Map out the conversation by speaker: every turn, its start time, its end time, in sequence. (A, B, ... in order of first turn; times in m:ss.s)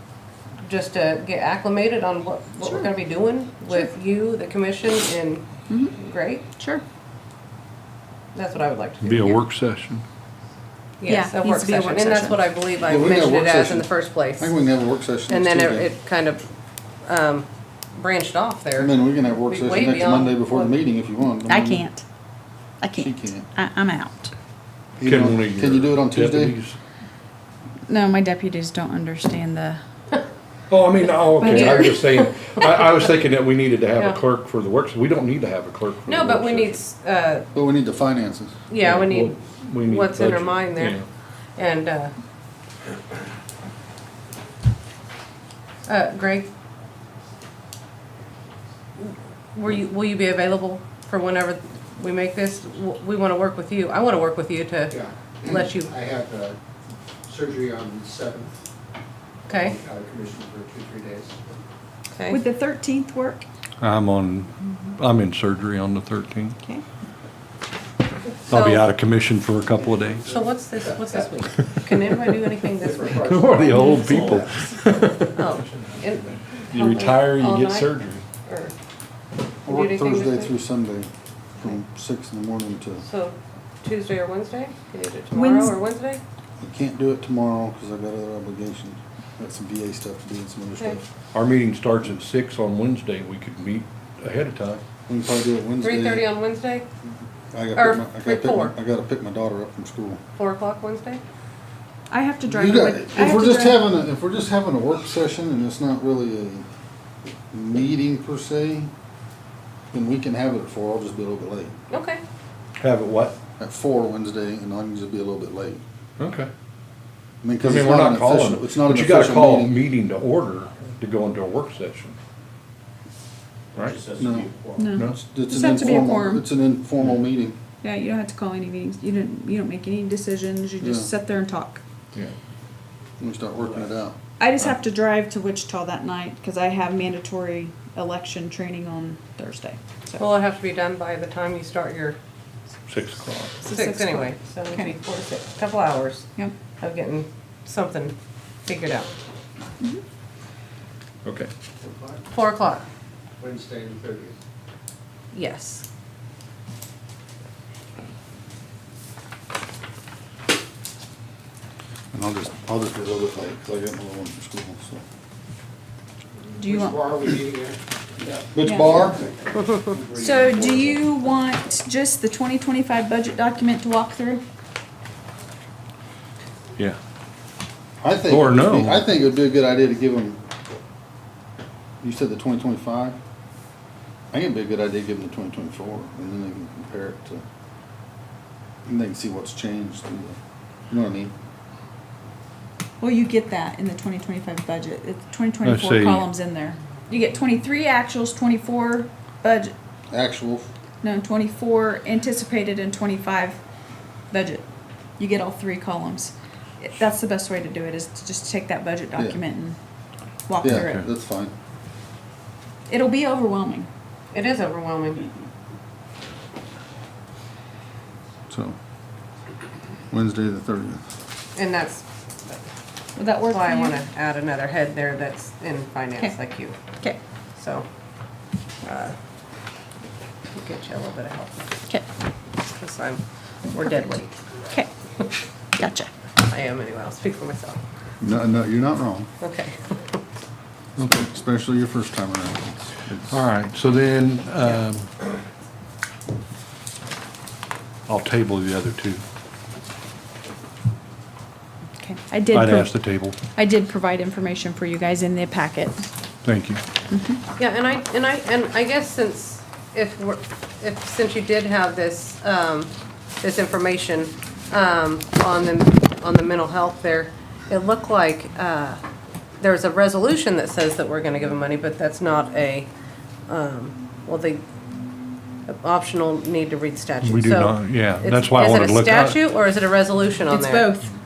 0:00.6-0:06.4 A
0:06.6-0:06.8 B
0:08.3-0:09.4 A
0:09.0-0:10.0 C
0:11.0-0:14.5 A
0:11.1-0:12.4 B
0:12.8-0:15.9 D
0:15.3-0:16.4 A
0:17.0-0:20.7 A
0:18.8-0:21.9 D
0:21.5-0:22.0 B
0:22.8-0:24.3 B
0:23.0-0:23.5 D
0:25.0-0:26.6 D
0:25.0-0:26.8 C
0:27.9-0:29.8 B
0:30.7-0:36.8 C
0:31.4-0:32.0 B
0:31.4-0:32.6 A
0:36.1-0:37.5 A
0:37.5-0:38.5 D
0:38.7-0:41.0 A
0:38.8-0:41.1 C
0:41.6-0:42.1 A
0:45.9-0:46.5 A
0:49.0-0:55.9 A
0:54.9-0:56.6 E
0:57.3-0:58.6 E
0:59.5-1:01.6 E
0:59.5-0:59.8 A
1:02.1-1:02.4 A
1:02.3-1:03.4 B
1:03.8-1:06.6 C
1:08.5-1:08.9 A
1:08.5-1:10.3 C
1:10.3-1:13.4 A
1:10.3-1:11.3 E
1:12.8-1:15.3 E
1:13.0-1:15.3 C
1:15.3-1:17.9 A
1:16.7-1:18.2 C
1:18.4-1:18.7 A
1:19.6-1:23.0 D
1:19.7-1:20.5 A
1:23.0-1:26.2 A
1:25.3-1:25.8 B
1:26.6-1:31.0 D
1:31.3-1:34.8 C
1:35.1-1:36.3 D
1:35.8-1:36.9 A
1:37.5-1:40.2 D
1:37.8-1:38.7 A
1:40.4-1:41.2 A
1:42.1-1:43.9 B
1:42.5-1:46.6 D
1:47.5-1:48.9 D
1:49.9-1:51.7 D
1:51.9-1:52.2 A
1:52.8-1:53.4 C
1:53.6-1:55.8 D
1:56.2-1:56.5 C
1:57.4-1:59.8 D
1:57.6-2:02.2 C
2:03.8-2:04.2 C
2:03.8-2:04.8 E
2:04.2-2:07.6 D
2:04.8-2:06.4 B
2:04.9-2:05.2 C
2:07.8-2:11.8 B
2:10.8-2:11.1 D
2:13.2-2:14.2 D
2:14.4-2:20.2 B
2:20.2-2:22.2 A
2:22.9-2:23.6 C
2:23.6-2:25.0 B
2:23.6-2:29.1 A
2:31.2-2:31.5 C
2:31.8-2:32.1 E
2:32.3-2:32.8 A
2:33.4-2:34.4 E
2:35.3-2:35.8 A
2:42.1-2:45.0 D
2:46.6-2:47.0 B
2:46.6-2:51.0 E
2:48.5-2:49.2 D
2:48.6-2:49.0 B
2:50.2-2:54.4 B
2:58.0-3:00.4 D
2:58.3-2:59.1 C
3:02.0-3:03.2 D
3:04.3-3:07.4 D
3:08.9-3:10.4 D
3:10.9-3:11.3 D
3:13.0-3:19.8 B
3:15.6-3:16.3 C
3:20.1-3:20.7 D
3:21.0-3:23.6 B
3:24.3-3:24.7 B
3:25.2-3:29.8 B
3:30.5-3:31.0 B
3:30.6-3:31.5 D
3:30.7-3:31.0 C
3:32.9-3:33.9 B
3:34.3-3:35.3 A
3:38.5-3:38.8 D
3:40.1-3:41.0 D
3:41.6-3:42.6 A
3:43.2-3:44.0 B
3:43.4-3:46.8 A
3:47.6-3:47.9 A
3:48.8-3:49.2 A
3:50.5-3:51.7 A
3:52.7-3:54.3 A
3:55.8-3:56.1 B
3:56.4-3:57.8 A
3:58.2-3:59.3 D
3:59.4-4:00.2 A
4:01.0-4:03.3 D
4:01.0-4:01.2 C
4:03.3-4:05.1 C
4:08.1-4:09.2 C
4:12.0-4:16.1 B
4:12.5-4:13.4 C
4:16.4-4:16.8 C
4:17.1-4:17.4 B
4:17.6-4:29.0 A
4:29.6-4:32.9 A
4:33.5-4:34.6 A
4:35.7-4:40.9 A
4:37.2-4:39.4 C
4:40.5-4:41.1 B